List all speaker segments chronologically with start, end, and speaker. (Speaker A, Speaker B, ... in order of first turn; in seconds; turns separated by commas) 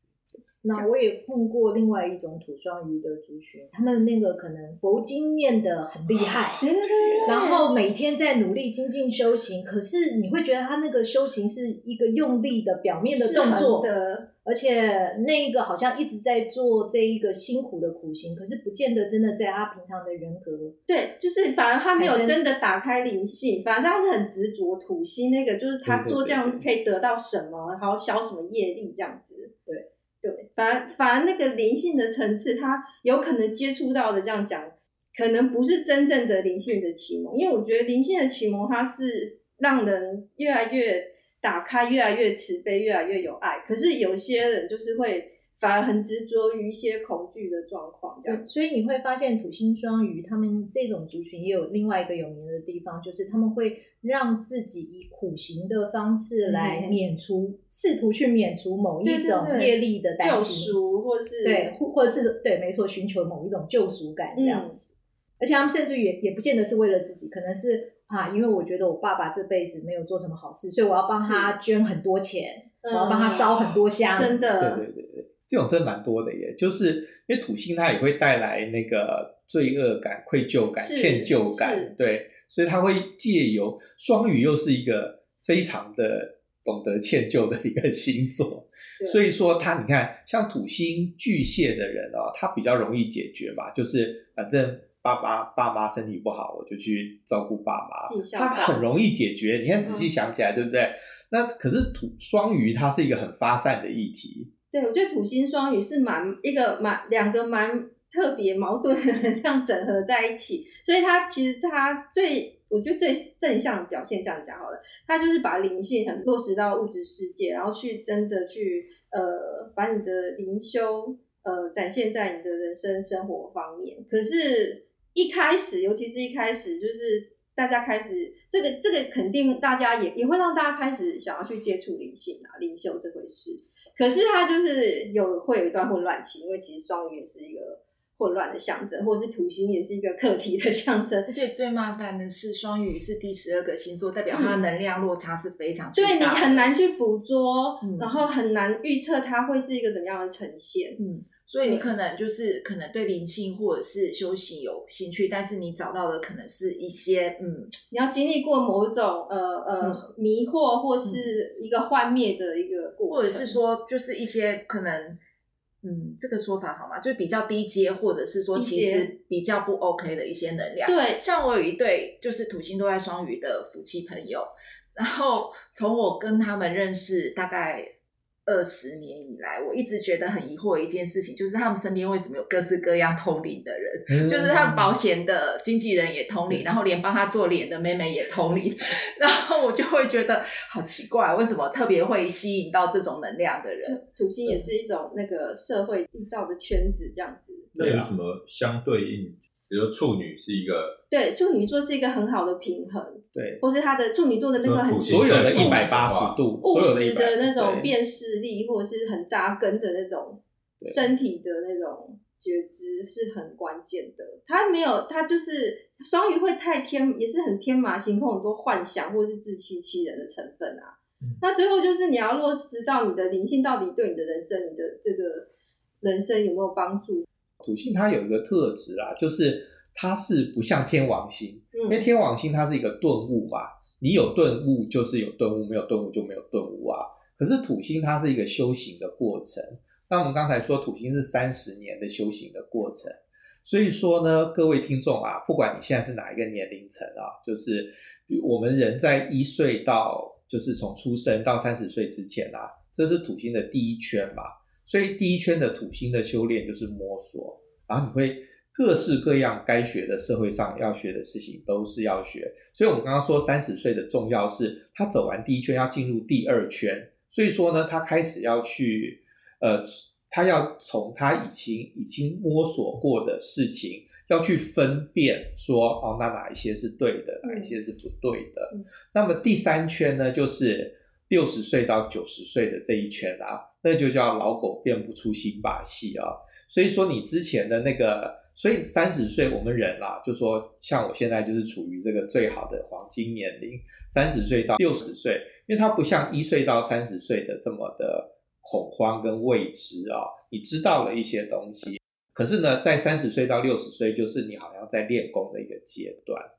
Speaker A: 0.6-6.6, Speaker B: 6.6-7.6, Speaker A: 7.2-13.9, Speaker B: 13.1-14.3, Speaker A: 14.4-20.7, Speaker B: 20.9-29.5, Speaker A: 21.9-22.4, Speaker C: 25.9-26.6, Speaker B: 30.2-48.5, Speaker A: 48.2-60.7, Speaker B: 56.4-57.0, Speaker B: 59.0-61.7, Speaker A: 61.4-74.4, Speaker B: 64.3-64.8, Speaker B: 71.0-71.5, Speaker B: 72.8-74.8, Speaker C: 74.6-104.5, Speaker B: 80.8-81.9, Speaker B: 98.1-98.8, Speaker B: 99.8-100.1, Speaker B: 104.7-141.3, Speaker D: 141.3-146.7, Speaker B: 144.3-144.6, Speaker B: 145.9-151.0, Speaker D: 147.8-148.3, Speaker D: 151.0-157.7, Speaker B: 151.6-151.9, Speaker B: 157.9-163.6, Speaker D: 159.8-160.1, Speaker D: 161.0-161.3, Speaker D: 163.1-165.2, Speaker D: 165.8-177.9, Speaker B: 168.5-169.1, Speaker B: 170.8-171.2, Speaker D: 178.4-194.0, Speaker C: 184.1-184.9, Speaker B: 193.8-197.7, Speaker C: 197.7-198.1, Speaker E: 197.7-201.0, Speaker B: 201.1-205.9, Speaker C: 203.3-203.6, Speaker E: 204.6-206.4, Speaker C: 205.0-207.9, Speaker B: 206.6-225.5, Speaker C: 210.8-211.1, Speaker B: 226.0-227.2, Speaker C: 227.6-306.5, Speaker B: 231.7-232.0, Speaker B: 277.4-277.7